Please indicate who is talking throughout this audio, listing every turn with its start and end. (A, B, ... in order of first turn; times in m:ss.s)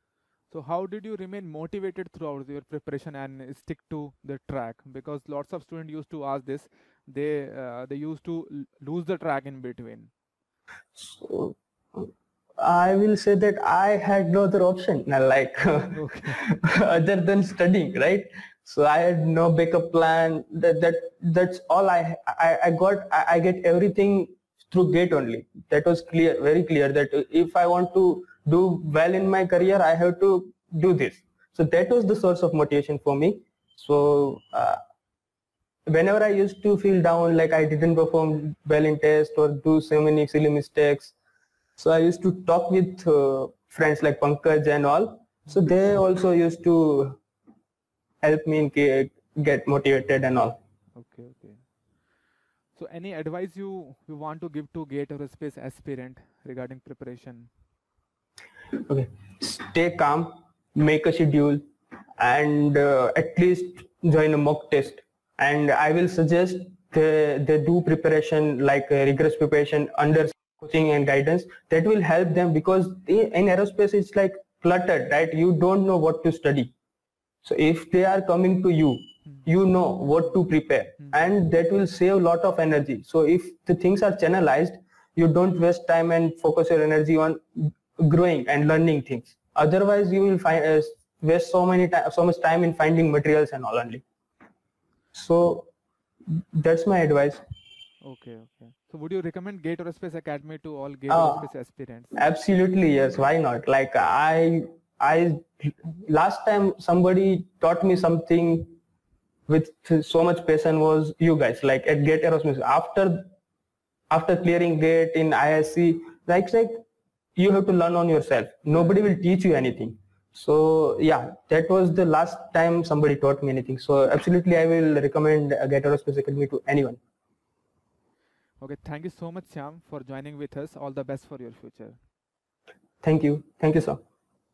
0:00.5-0:10.1 A
0:11.0-0:34.8 B
0:15.9-0:16.4 A
0:35.9-0:41.1 B
0:41.8-0:47.2 B
0:48.2-0:50.6 B
0:50.9-0:51.6 A
0:52.7-0:57.5 A
0:58.9-1:01.6 B
1:02.2-1:16.7 B
1:17.4-1:34.0 B
1:21.0-1:21.3 A
1:35.1-1:35.7 B
1:36.3-1:37.4 B
1:38.0-1:42.2 A
1:41.1-1:41.5 B
1:42.1-1:48.8 B
1:49.5-1:53.3 B
1:54.1-1:56.8 B
1:57.4-2:07.0 B
2:08.6-2:12.0 A
2:13.0-2:14.0 B